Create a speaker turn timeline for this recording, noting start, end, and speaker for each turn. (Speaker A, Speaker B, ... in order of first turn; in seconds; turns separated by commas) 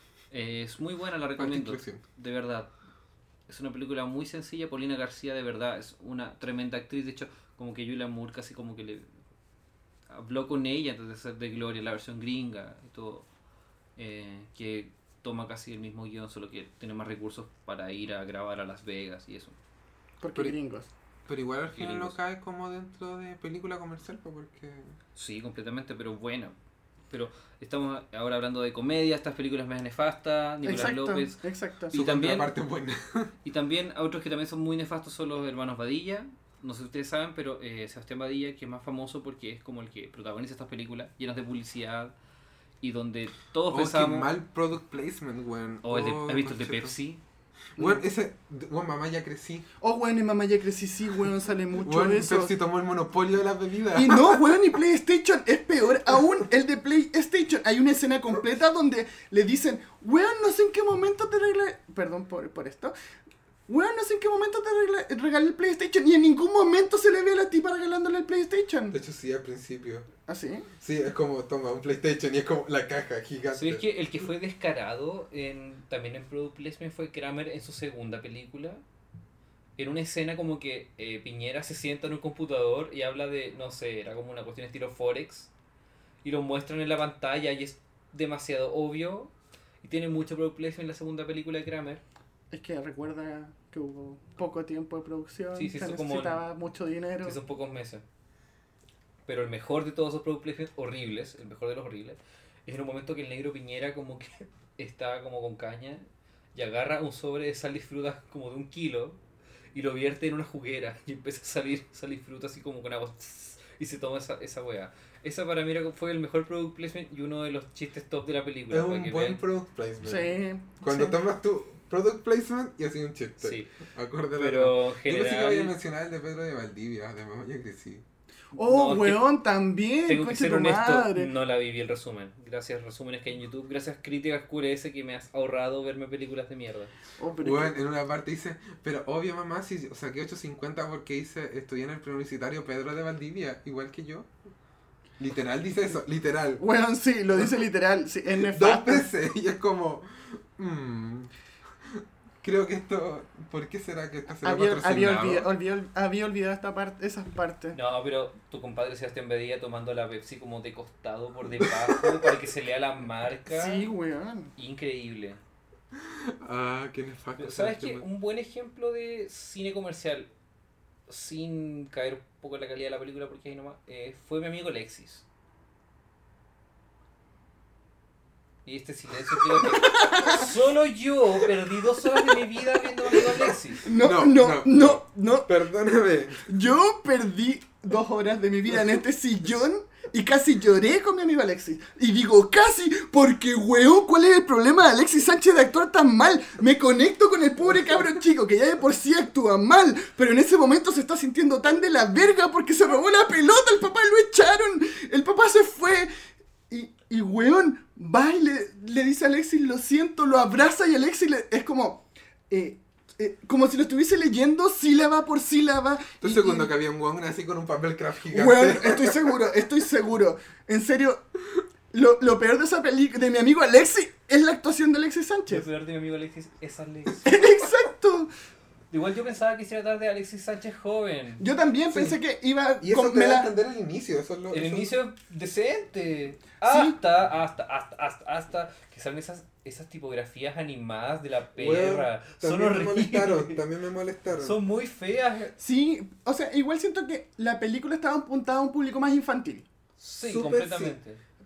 Speaker A: 0.3-2.7, Speaker B: 1.4-2.0, Speaker A: 3.5-9.1, Speaker A: 10.1-13.3, Speaker A: 14.0-19.6, Speaker C: 20.2-20.9, Speaker B: 21.3-24.9, Speaker A: 21.7-22.2, Speaker A: 25.1-26.5, Speaker A: 27.1-32.5, Speaker C: 30.6-31.9, Speaker B: 31.9-33.3, Speaker A: 33.4-42.1, Speaker A: 42.8-44.3, Speaker B: 43.7-46.9, Speaker A: 45.8-47.2, Speaker B: 47.8-49.6, Speaker C: 47.8-48.0, Speaker C: 49.8-52.5, Speaker B: 51.8-54.6, Speaker C: 53.9-62.9, Speaker C: 63.7-69.0, Speaker B: 68.9-70.1, Speaker C: 70.3-70.7, Speaker B: 70.8-73.8, Speaker A: 73.5-78.8, Speaker A: 79.8-85.5, Speaker A: 86.2-92.0, Speaker C: 92.5-97.4, Speaker A: 95.5-96.4, Speaker A: 97.2-98.0, Speaker A: 99.2-109.2, Speaker A: 109.7-119.4, Speaker B: 118.7-128.0, Speaker C: 120.0-121.2, Speaker A: 123.4-123.7, Speaker A: 124.3-125.7, Speaker C: 128.6-131.3, Speaker A: 128.6-129.2, Speaker A: 130.1-136.9, Speaker C: 137.2-137.8, Speaker B: 137.4-144.3, Speaker B: 145.2-146.6, Speaker C: 146.6-149.1, Speaker B: 148.5-151.3, Speaker B: 151.8-155.5, Speaker C: 154.4-157.8, Speaker A: 157.7-163.9, Speaker B: 161.6-162.3, Speaker C: 163.5-164.5, Speaker A: 164.6-165.4, Speaker B: 165.9-168.1, Speaker A: 167.4-170.3, Speaker A: 171.1-175.2, Speaker A: 178.6-183.9, Speaker C: 179.6-180.5, Speaker C: 183.8-185.5, Speaker B: 183.9-186.5, Speaker C: 186.4-206.1, Speaker C: 206.7-216.7, Speaker B: 216.2-219.4, Speaker C: 218.3-221.2, Speaker C: 221.9-225.7, Speaker A: 225.5-227.5, Speaker C: 227.2-228.3, Speaker A: 228.9-231.4, Speaker C: 231.4-233.5, Speaker B: 232.8-234.9, Speaker A: 234.5-243.6, Speaker C: 236.6-236.9, Speaker B: 241.6-244.6, Speaker A: 244.4-245.5, Speaker C: 245.6-249.7, Speaker A: 250.0-251.2, Speaker B: 250.2-250.9